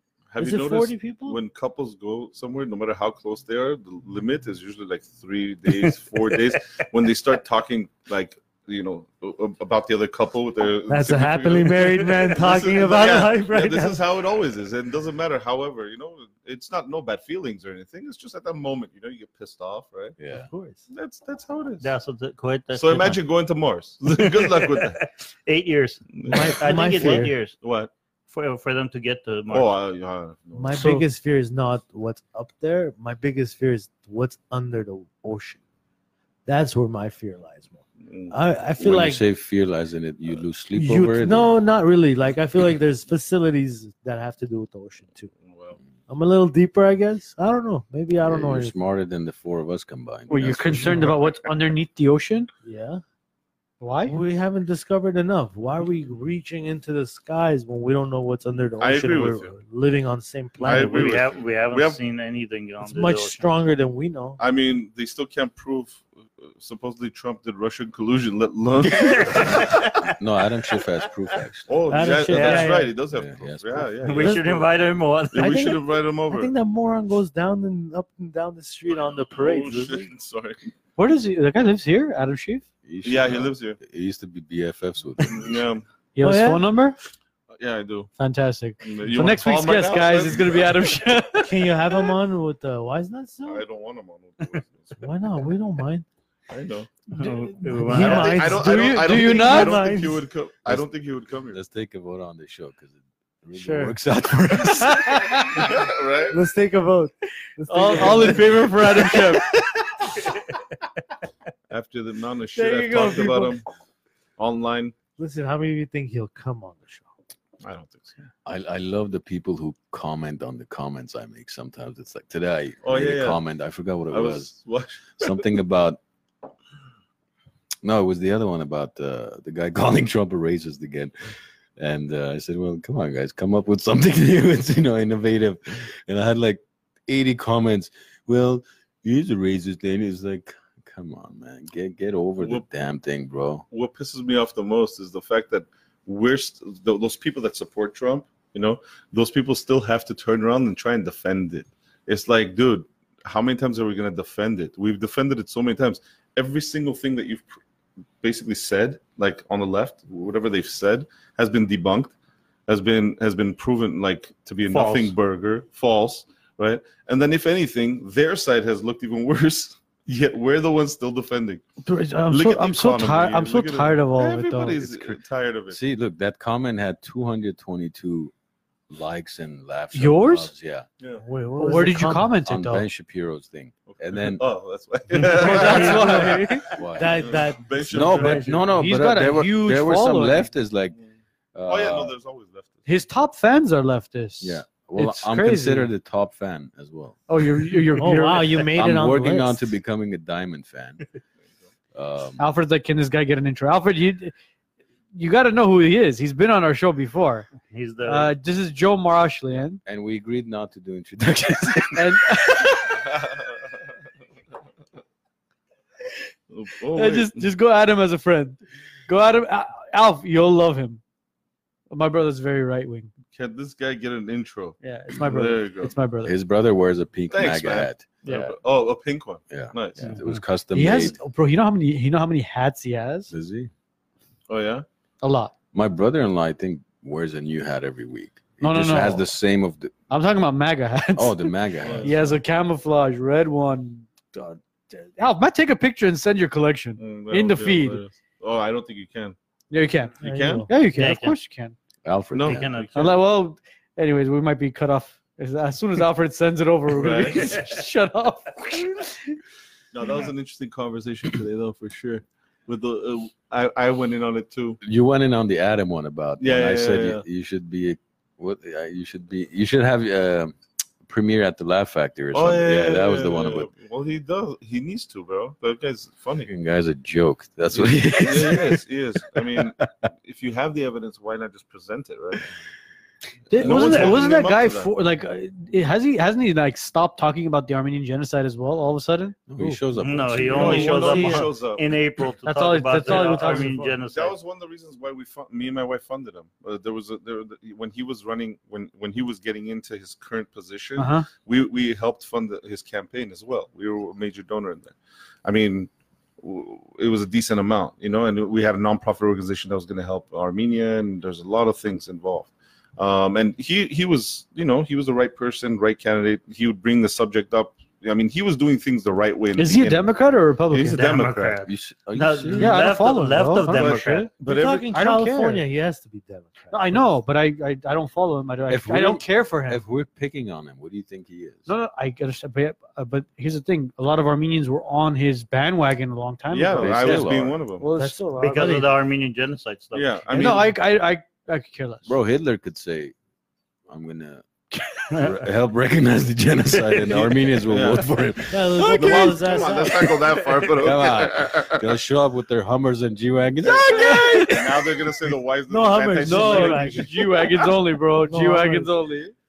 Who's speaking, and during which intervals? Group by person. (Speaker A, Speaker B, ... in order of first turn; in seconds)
Speaker A: 0.3-20.1, 20.9-21.9, 22.7-25.0, 26.1-27.9, 29.5-30.8, 38.0-38.3, 45.4-45.8, 58.8-59.5, 60.6-62.0, 64.4-69.9, 71.7-74.6, 75.3-76.5, 79.2-80.7, 83.0-83.8, 85.2-85.8, 87.5-88.1, 88.8-90.9, 93.5-95.1, 96.5-97.0, 97.9-101.6, 105.5-106.4, 111.7-113.6, 114.4-114.9, 117.6-118.2, 122.8-123.4, 124.1-125.4, 143.7-157.6, 158.2-162.1, 162.7-171.7, 172.3-175.8, 183.9-188.7, 191.7-192.9, 213.1-213.4, 216.5-217.5, 223.3-225.9, 227.3-230.1, 234.5-234.8, 241.8-242.1, 247.0-249.3, 250.2-250.7, 252.3-253.2, 256.9-257.6, 259.9-264.8, 266.4-267.2, 272.3-276.5, 277.7-282.5, 283.5-284.9, 290.5-291.9, 294.1-305.9, 306.4-321.6, 323.7-324.9, 336.5-337.9, 339.9-340.8, 347.1-348.1, 348.9-351.9, 353.8-357.7
Speaker B: 0.4-1.4, 10.9-14.0, 20.3-20.8, 26.2-27.4, 30.5-35.6, 36.5-39.2, 40.7-45.3, 46.1-48.7, 52.6-53.0, 54.1-61.2, 62.8-64.4, 71.9-72.9, 74.1-74.6, 75.3-80.1, 86.2-86.7, 91.3-93.6, 95.0-96.0, 97.7-100.2, 103.5-104.0, 106.3-109.0, 112.5-113.5, 115.2-117.1, 181.2-182.4, 185.3-188.6, 198.0-199.6, 250.2-250.7, 290.6-291.5, 293.0-293.9, 324.4-327.0, 337.9-338.9, 348.5-350.2, 355.7-357.4, 358.2-358.9
Speaker C: 20.2-20.5, 38.8-41.5, 48.2-51.2, 68.8-71.8, 73.1-74.2, 82.8-85.6, 101.4-105.6, 118.4-124.5, 125.2-126.0, 127.8-143.6, 175.7-178.3, 178.9-180.8, 182.4-184.4, 186.7-187.3, 187.9-191.0, 191.5-192.1, 194.4-197.6, 198.6-201.0, 201.9-202.4, 209.8-212.6, 226.2-228.5, 229.5-231.2, 233.3-233.7, 235.7-240.0, 241.2-242.4, 252.0-252.7, 264.8-273.7, 276.4-279.6, 289.5-290.8, 321.6-322.9, 328.7-331.7, 336.8-337.6, 342.1-343.1, 343.9-344.4, 345.2-348.9, 350.8-354.5
Speaker D: 21.8-23.2, 24.1-27.6, 28.3-29.7, 60.6-63.4, 69.0-70.0, 72.3-72.7, 74.0-75.6, 97.1-98.4, 164.7-165.1, 207.6-208.3, 250.9-251.3, 252.4-252.9, 283.6-284.2, 290.0-294.4, 320.9-324.3, 338.4-340.3, 345.1-345.5, 346.7-347.2
Speaker E: 50.3-52.5, 53.8-54.2, 81.0-82.7, 86.1-87.0, 88.2-91.7, 97.2-100.0, 104.7-105.6, 107.7-109.6, 112.9-113.3, 171.8-175.2, 179.9-180.5, 181.6-182.8, 185.1-186.7, 188.7-190.5, 192.8-195.9, 197.3-198.5, 202.4-204.3, 205.1-207.5, 208.0-209.8, 211.9-213.0, 216.9-221.0, 221.9-223.1, 224.8-226.3, 230.7-233.3, 235.2-235.5, 238.6-239.2, 240.1-248.0, 249.7-251.7, 252.9-259.4, 283.5-289.8, 291.0-291.4, 292.4-293.9, 301.0-301.3, 319.5-321.0, 322.6-324.3, 324.9-325.6, 326.7-329.8, 331.7-338.2, 340.3-342.1, 344.8-345.1, 348.8-349.4, 353.7-354.9, 356.2-359.3